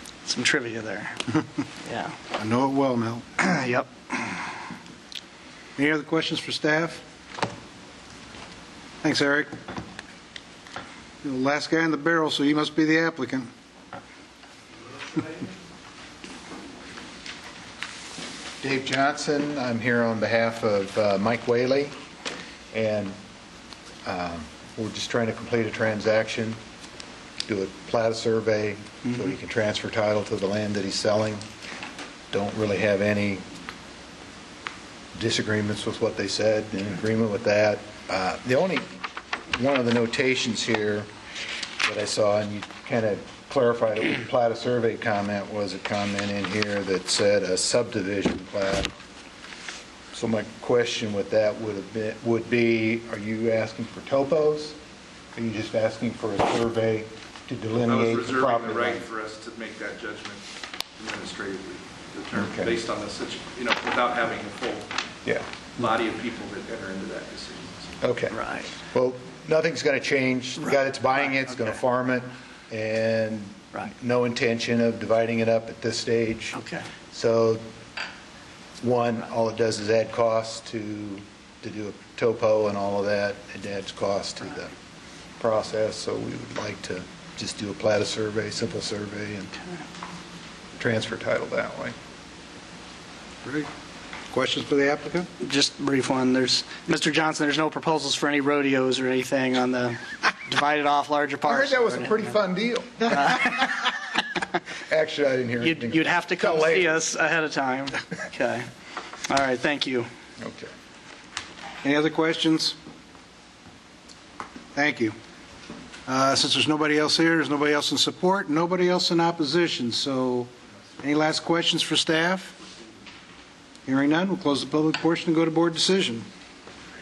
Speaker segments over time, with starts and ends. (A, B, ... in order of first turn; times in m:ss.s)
0:00.2-0:01.3 A
0:01.8-0:02.2 A
0:02.4-0:03.2 B
0:03.4-0:04.4 A
0:05.8-0:07.0 B
0:09.0-0:09.5 B
0:11.2-0:13.5 B
0:18.6-0:21.9 C
0:22.7-0:23.2 C
0:24.0-0:26.6 C
0:27.5-0:31.4 C
0:32.3-0:33.4 C
0:35.2-0:39.0 C
0:39.5-0:41.1 C
0:41.8-0:48.9 C
0:50.1-0:54.8 C
0:55.4-0:59.1 C
0:57.8-1:00.4 D
1:01.0-1:04.9 D
1:02.3-1:02.7 C
1:05.8-1:08.0 D
1:08.0-1:08.4 C
1:08.3-1:08.8 A
1:08.9-1:17.6 C
1:16.6-1:16.9 A
1:18.8-1:24.7 C
1:25.4-1:29.6 C
1:30.8-1:32.0 C
1:33.4-1:33.7 B
1:34.3-1:35.3 B
1:35.4-1:42.3 A
1:41.4-1:43.9 C
1:44.9-1:47.0 C
1:45.6-1:48.7 A
1:49.3-1:50.1 A
1:50.4-1:50.7 C
1:51.8-1:52.8 B
1:54.7-1:55.2 B
1:56.1-2:00.5 B
2:01.0-2:02.6 B
2:03.9-2:06.3 B